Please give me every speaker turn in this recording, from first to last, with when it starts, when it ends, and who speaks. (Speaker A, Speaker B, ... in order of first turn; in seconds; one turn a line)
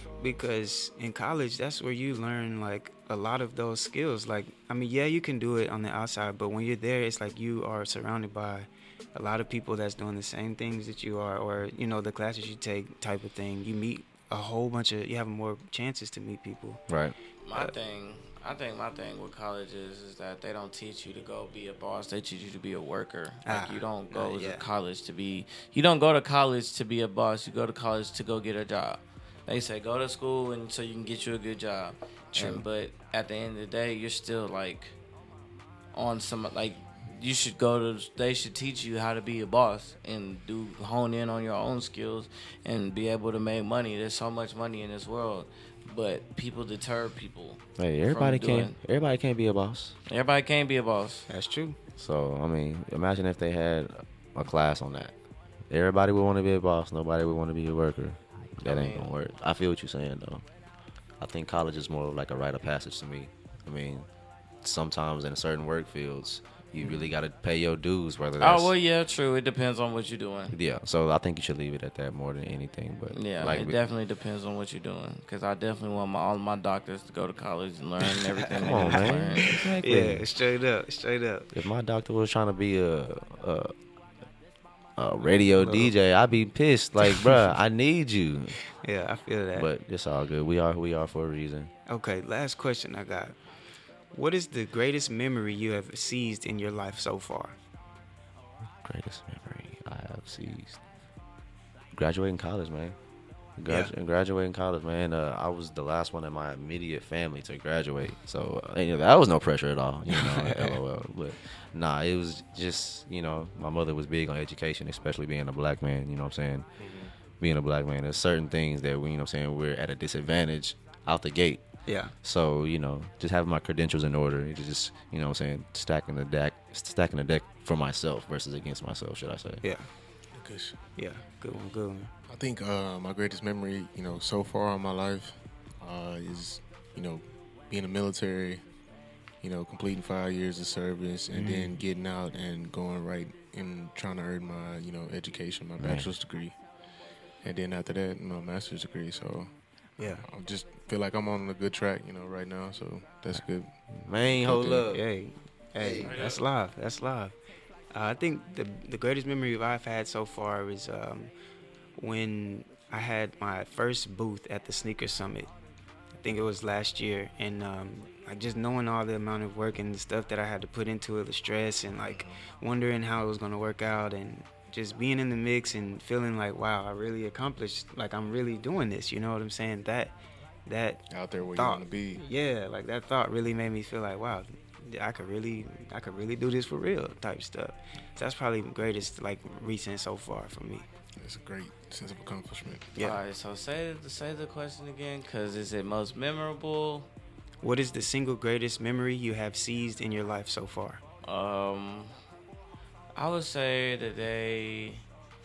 Speaker A: 0.2-16.8
Speaker B: 16.9-17.1
Speaker C: 17.4-35.0
Speaker A: 23.5-24.6
Speaker A: 32.4-32.6
Speaker C: 35.9-48.8
Speaker B: 47.8-50.0
Speaker C: 50.1-51.3
Speaker A: 51.3-51.8
Speaker B: 52.0-55.1
Speaker B: 55.7-60.4
Speaker C: 58.7-59.1
Speaker B: 61.2-64.1
Speaker B: 64.6-68.7
Speaker C: 68.4-70.5
Speaker B: 70.5-73.8
Speaker C: 73.1-79.5
Speaker B: 78.5-80.2
Speaker A: 78.6-81.5
Speaker B: 81.5-83.7
Speaker B: 85.0-88.6
Speaker A: 85.6-85.9
Speaker A: 87.0-87.4
Speaker A: 88.8-89.7
Speaker B: 89.5-91.7
Speaker A: 91.9-93.4
Speaker A: 94.1-97.6
Speaker B: 98.8-100.8
Speaker B: 101.9-103.0
Speaker B: 103.6-116.7
Speaker A: 103.7-103.9
Speaker A: 110.1-110.8
Speaker D: 116.8-117.1
Speaker B: 117.4-121.6
Speaker A: 121.9-122.1
Speaker B: 122.2-129.6
Speaker D: 130.3-130.8
Speaker A: 131.0-132.1
Speaker D: 132.3-138.6
Speaker D: 139.4-146.6
Speaker A: 141.3-141.8
Speaker B: 145.8-146.1
Speaker D: 147.4-149.5
Speaker A: 150.0-150.2
Speaker D: 150.0-153.7
Speaker B: 153.9-155.0
Speaker A: 154.5-157.4
Speaker C: 156.1-156.4
Speaker A: 157.9-161.3
Speaker A: 162.0-165.5
Speaker A: 166.2-181.0
Speaker D: 172.0-172.4
Speaker D: 181.1-182.2
Speaker A: 181.6-190.9
Speaker D: 191.2-192.9
Speaker C: 193.0-197.1
Speaker A: 197.6-201.0
Speaker C: 201.2-202.1
Speaker C: 203.2-205.0